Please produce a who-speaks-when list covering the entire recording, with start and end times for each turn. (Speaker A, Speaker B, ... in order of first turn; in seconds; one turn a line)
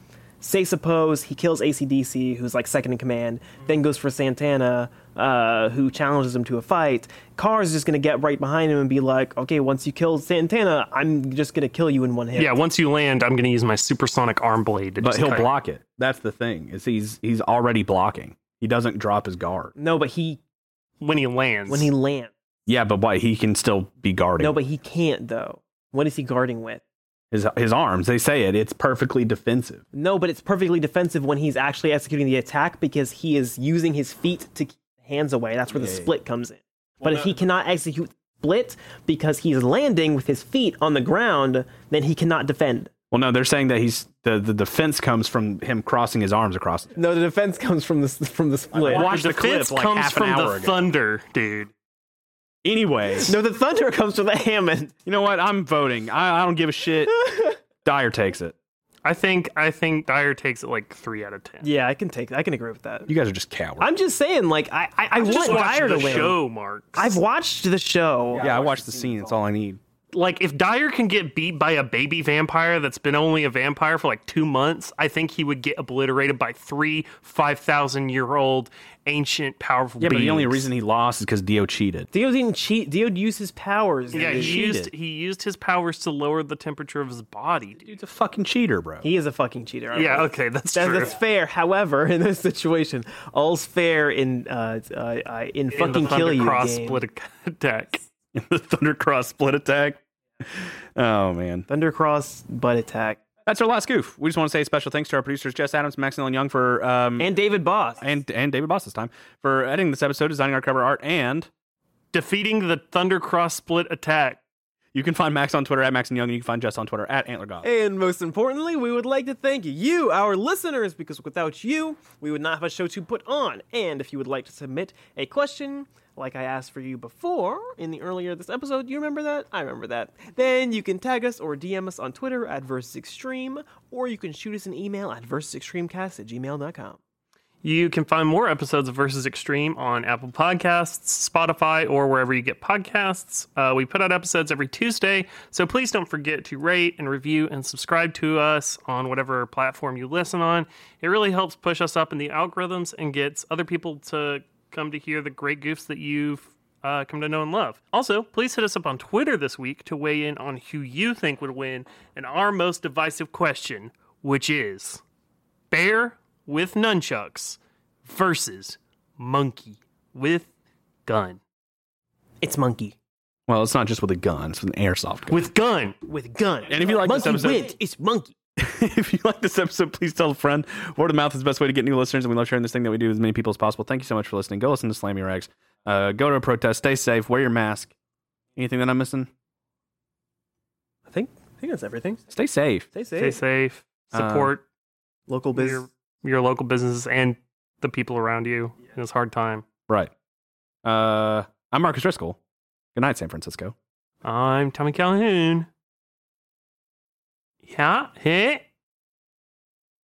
Speaker A: 0.4-12.6
Speaker B: 12.3-15.5
Speaker C: 15.0-19.7
Speaker A: 19.8-20.4
Speaker B: 21.0-21.9
Speaker A: 21.7-22.3
Speaker C: 22.7-24.6
Speaker A: 24.4-26.8
Speaker C: 27.3-29.8
Speaker A: 29.9-42.9
Speaker C: 35.8-36.1
Speaker C: 43.1-46.9
Speaker A: 46.9-49.1
Speaker C: 48.7-50.9
Speaker B: 48.9-51.7
Speaker C: 52.6-53.3
Speaker A: 53.2-54.9
Speaker C: 55.0-57.3
Speaker C: 57.8-58.5
Speaker B: 59.0-61.7
Speaker A: 61.6-63.1
Speaker C: 63.1-63.9
Speaker A: 63.8-66.4
Speaker B: 65.1-67.2
Speaker C: 65.7-66.3
Speaker A: 67.0-69.1
Speaker C: 68.4-69.8
Speaker B: 70.1-80.7
Speaker C: 80.0-82.1
Speaker A: 82.1-84.6
Speaker B: 84.1-87.9
Speaker C: 84.1-84.9
Speaker C: 87.8-89.1
Speaker A: 89.0-97.0
Speaker B: 89.9-91.2
Speaker B: 95.7-98.0
Speaker C: 98.3-101.7
Speaker A: 101.7-103.2
Speaker C: 103.5-107.3
Speaker A: 107.2-108.0
Speaker C: 108.0-111.5
Speaker B: 112.1-114.4
Speaker C: 114.9-117.7
Speaker A: 117.6-137.0
Speaker B: 137.6-165.0
Speaker B: 165.7-170.5
Speaker B: 171.1-171.4
Speaker A: 172.4-173.0
Speaker C: 173.5-175.4
Speaker B: 175.3-175.9
Speaker A: 176.0-178.3
Speaker C: 176.7-177.7
Speaker C: 178.6-187.9
Speaker C: 188.6-189.3
Speaker A: 191.1-192.2
Speaker C: 192.3-192.9
Speaker A: 192.9-193.4
Speaker B: 193.2-194.6
Speaker C: 194.1-194.5
Speaker A: 195.3-195.9
Speaker B: 195.6-199.6
Speaker C: 200.8-202.4
Speaker C: 202.9-203.7
Speaker B: 204.2-205.7
Speaker B: 207.7-208.6